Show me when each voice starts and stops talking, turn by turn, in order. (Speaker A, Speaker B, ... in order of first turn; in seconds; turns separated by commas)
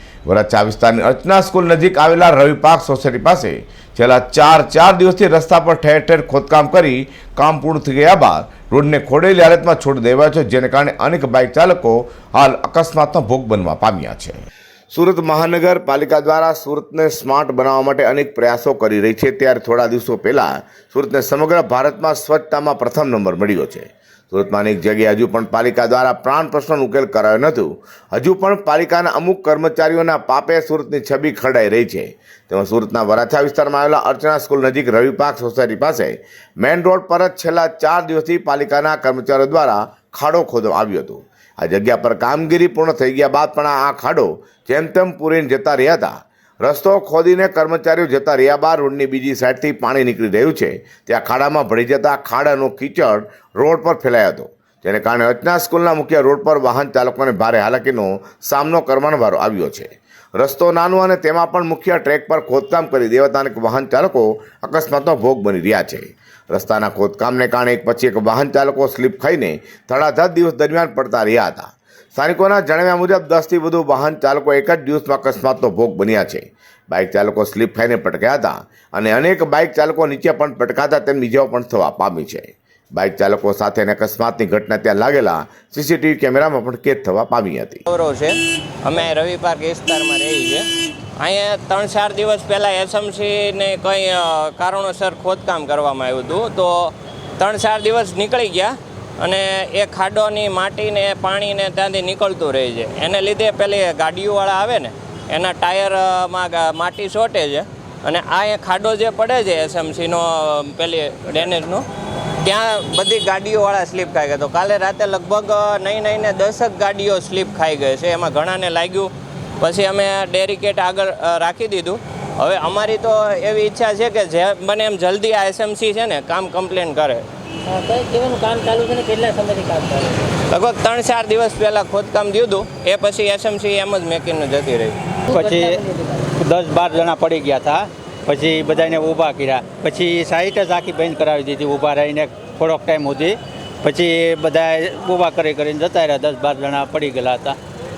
Speaker A: 0.2-87.8, Speaker B: 87.9-90.7, Speaker B: 91.2-111.8, Speaker B: 112.4-127.2, Speaker C: 127.7-130.3, Speaker B: 130.5-135.0, Speaker C: 135.3-136.3, Speaker D: 135.3-135.8, Speaker D: 136.3-147.6